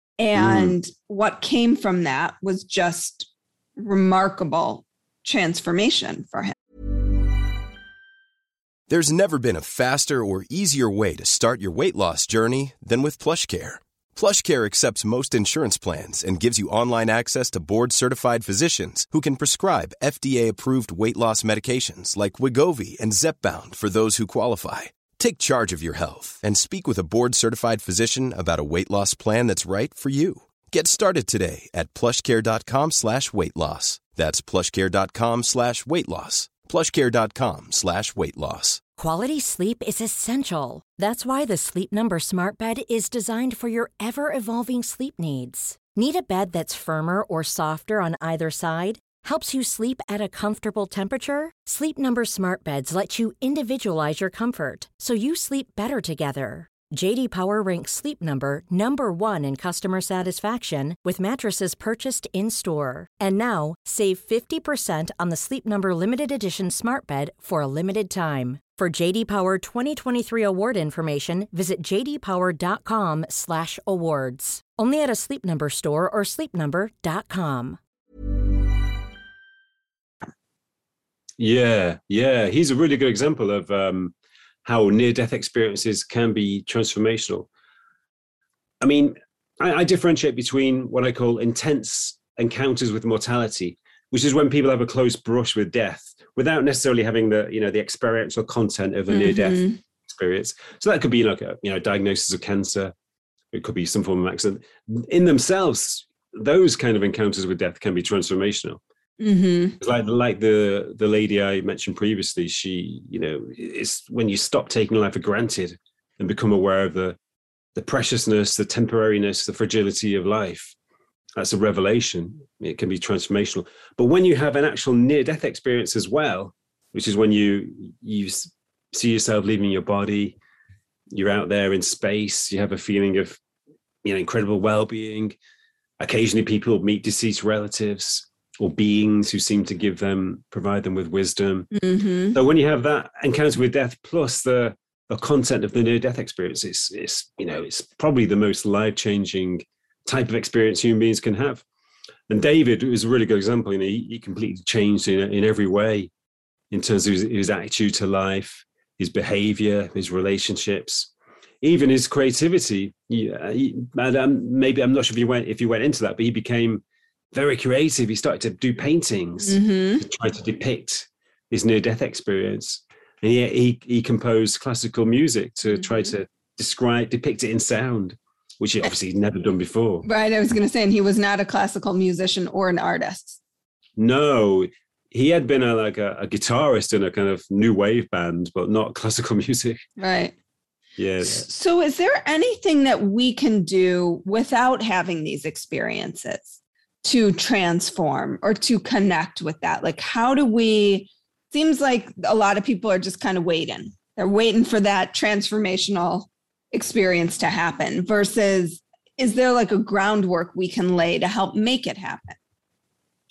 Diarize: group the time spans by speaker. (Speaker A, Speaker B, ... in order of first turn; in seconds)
Speaker A: 0.2-6.5, 99.1-99.8, 109.2-109.8, 141.7-142.4, 169.4-170.1, 175.7-176.1, 180.0-183.4, 190.0-190.3, 191.2-212.4
Speaker B: 0.3-0.8, 81.4-84.1, 84.6-87.5, 88.8-102.9, 103.5-108.8, 109.8-117.2, 117.7-120.8, 121.4-130.4, 131.1-133.4, 134.0-135.3, 136.0-141.7, 142.3-151.6, 152.3-156.1, 156.7-161.1, 161.6-180.1, 184.0-189.8, 191.0-191.4
Speaker C: 8.9-38.8
Speaker D: 39.0-77.8